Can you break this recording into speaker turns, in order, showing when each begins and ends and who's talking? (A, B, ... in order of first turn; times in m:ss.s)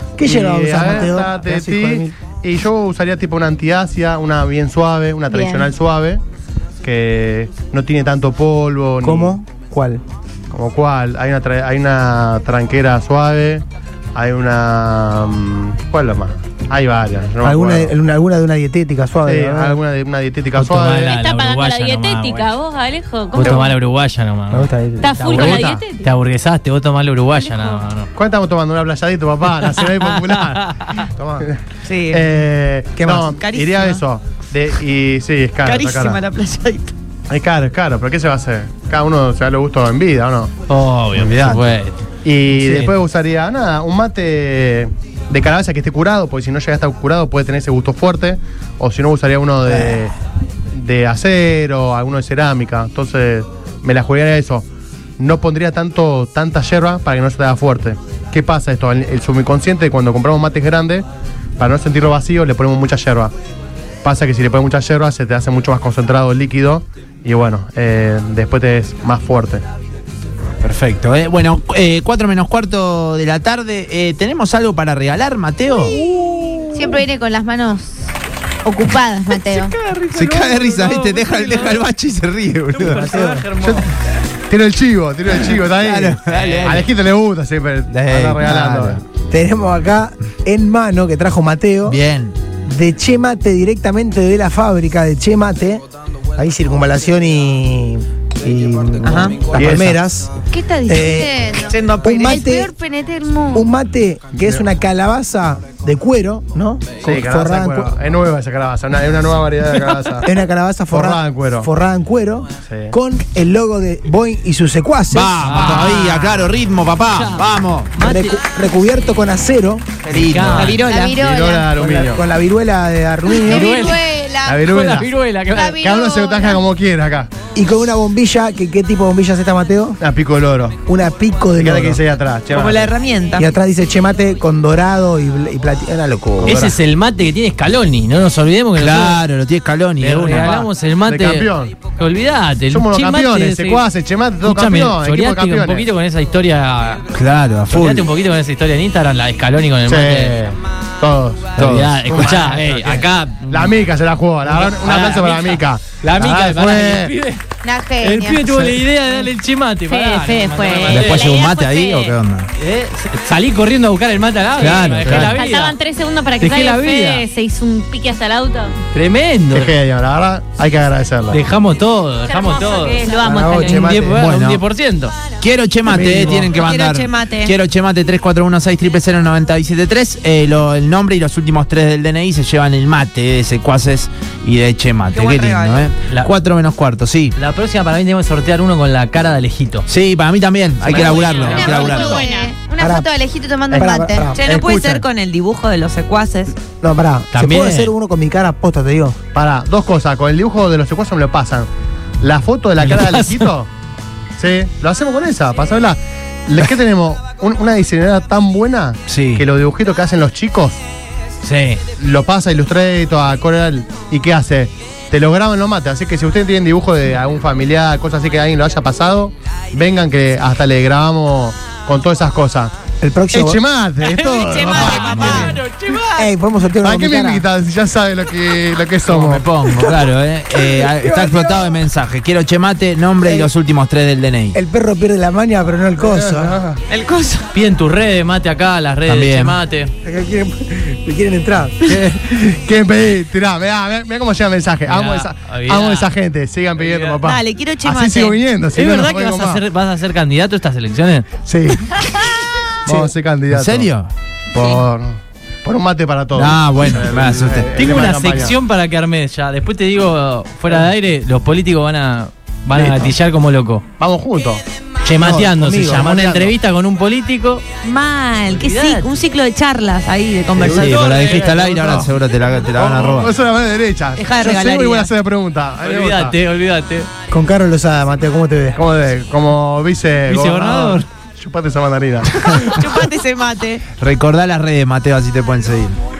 0:00.2-0:02.1 A
0:00.2-0:06.2 B
0:05.3-0:05.7 C
0:06.8-0:09.4 B
0:09.0-0:10.0 A
0:10.5-0:17.9 B
0:17.4-0:19.8 A
0:19.2-0:21.1 B
0:20.5-0:22.5 D
0:21.0-0:23.7 E
0:23.3-0:24.7 D
0:23.4-0:23.7 B
0:24.5-0:25.7 A
0:25.0-0:26.1 E
0:25.2-0:28.1 D
0:25.3-0:25.8 B
0:28.1-0:30.8 B
0:29.8-0:30.9 D
0:31.2-0:31.5 A
0:31.4-0:36.2 B
0:31.8-0:32.4 F
0:33.0-0:33.3 A
0:33.2-0:34.0 F
0:35.6-0:36.9 F
0:37.3-0:40.5 B
0:40.7-0:42.0 D
0:41.1-0:41.6 B
0:42.2-0:50.1 B
0:42.6-0:42.9 D
0:50.7-0:54.6 B
0:55.2-1:01.0 B
1:01.6-1:03.3 B
1:04.0-1:09.6 B
1:10.6-1:16.0 G
1:16.7-1:18.1 C
1:18.6-1:19.7 C
1:19.5-1:21.8 D
1:20.1-1:23.1 G
1:22.7-1:23.9 D
1:22.9-1:23.8 A
1:24.5-1:29.0 B
1:25.7-1:26.9 G
1:26.2-1:26.8 D
1:27.9-1:29.0 G
1:28.5-1:32.0 A
1:31.8-1:32.4 G
1:32.6-1:35.8 A
1:36.4-1:40.3 A
1:39.0-1:39.5 F
1:39.5-1:40.0 B
1:40.5-1:43.7 C
1:40.8-1:41.4 A
1:41.7-1:42.1 F
1:42.0-1:42.7 A
1:43.5-1:47.9 A
1:44.4-1:44.6 B
1:47.0-1:50.3 B
1:50.2-1:55.5 A
1:50.9-1:51.7 B
1:52.7-1:52.9 B
1:55.1-1:57.9 G
1:55.4-1:56.5 D
1:57.0-1:58.4 D
1:58.0-2:00.0 A
2:00.0-2:00.8 G
2:00.1-2:00.8 D
2:00.5-2:01.2 F
2:00.8-2:01.7 C
2:01.2-2:02.2 B
2:01.7-2:03.9 A
2:03.4-2:04.6 C
2:03.4-2:04.0 D
2:04.4-2:05.1 B
2:04.6-2:05.9 D
2:05.5-2:06.6 C
2:05.8-2:07.3 B
2:07.5-2:10.0 A
2:10.0-2:10.8 B
2:10.9-2:12.0 A
2:11.6-2:12.9 B
2:12.5-2:13.5 F
2:13.4-2:16.7 A
2:16.4-2:16.7 B
2:16.4-2:19.2 D
2:18.8-2:20.6 G
2:20.0-2:23.8 D
2:20.3-2:21.8 B
2:22.7-2:25.8 B
2:24.4-2:27.1 D
2:27.1-2:28.1 G
2:27.7-2:30.4 D
2:29.8-2:37.1 B
2:31.6-2:32.3 G
2:31.6-2:33.9 D
2:34.4-2:37.4 D
2:37.6-2:38.4 C
2:38.0-2:41.4 D
2:39.9-2:42.2 E
2:40.9-2:42.5 G
2:42.6-2:45.8 D
2:44.6-2:45.3 G
2:45.1-2:48.8 E
2:46.4-2:47.2 D
2:48.9-2:49.7 D
2:49.5-2:51.4 B
2:51.3-2:55.2 D
2:52.3-2:53.9 E
2:53.2-2:54.2 A
2:54.1-2:54.6 G
2:55.3-3:07.4 G
2:55.8-2:56.4 A
2:56.0-2:57.5 F
2:56.0-2:56.5 D
3:05.1-3:05.9 F
3:07.4-3:09.8 D
3:09.9-3:12.2 G
3:10.8-3:12.2 D
3:11.1-3:12.5 E
3:11.4-3:14.3 C
3:12.8-3:13.1 A
3:13.7-3:15.0 B
3:13.7-3:14.4 A
3:14.3-3:16.6 F
3:16.8-3:19.2 A
3:17.3-3:17.9 D
3:19.3-3:21.7 B
3:22.2-3:23.7 B
3:22.8-3:23.5 D
3:24.4-3:30.8 B
3:29.1-3:29.4 G
3:31.4-3:31.8 D
3:32.0-3:42.7 B
3:43.0-3:43.6 A
3:43.3-3:45.6 B
3:44.0-3:46.3 D
3:44.5-3:45.5 F
3:46.1-3:47.4 A
3:46.8-3:49.4 B
3:49.0-3:54.6 G
3:49.7-3:51.8 A
3:53.2-3:53.5 A
3:54.5-3:56.6 A
3:56.0-3:56.8 B
3:56.9-3:57.5 F
3:57.5-3:59.9 D
3:59.0-3:59.6 G
4:00.0-4:01.9 A
4:01.8-4:09.6 B
4:04.8-4:06.1 D
4:06.8-4:07.2 D
4:07.2-4:08.4 F
4:08.7-4:11.4 D
4:11.4-4:13.9 B
4:12.9-4:14.1 G
4:14.5-4:18.6 B
4:16.3-4:17.7 G
4:17.7-4:23.8 D
4:22.7-4:23.1 B
4:24.0-4:24.6 B
4:25.0-4:27.7 D
4:25.2-4:26.5 A
4:27.8-4:31.4 F
4:28.5-4:29.1 D
4:30.6-4:33.3 G
4:30.6-4:32.1 B
4:31.2-4:31.6 D
4:32.7-4:36.4 B
4:34.2-4:35.1 F
4:35.8-4:37.1 D
4:37.3-4:38.8 A
4:38.8-4:43.0 B
4:40.3-4:41.1 D
4:42.5-4:43.8 F
4:44.0-4:46.0 G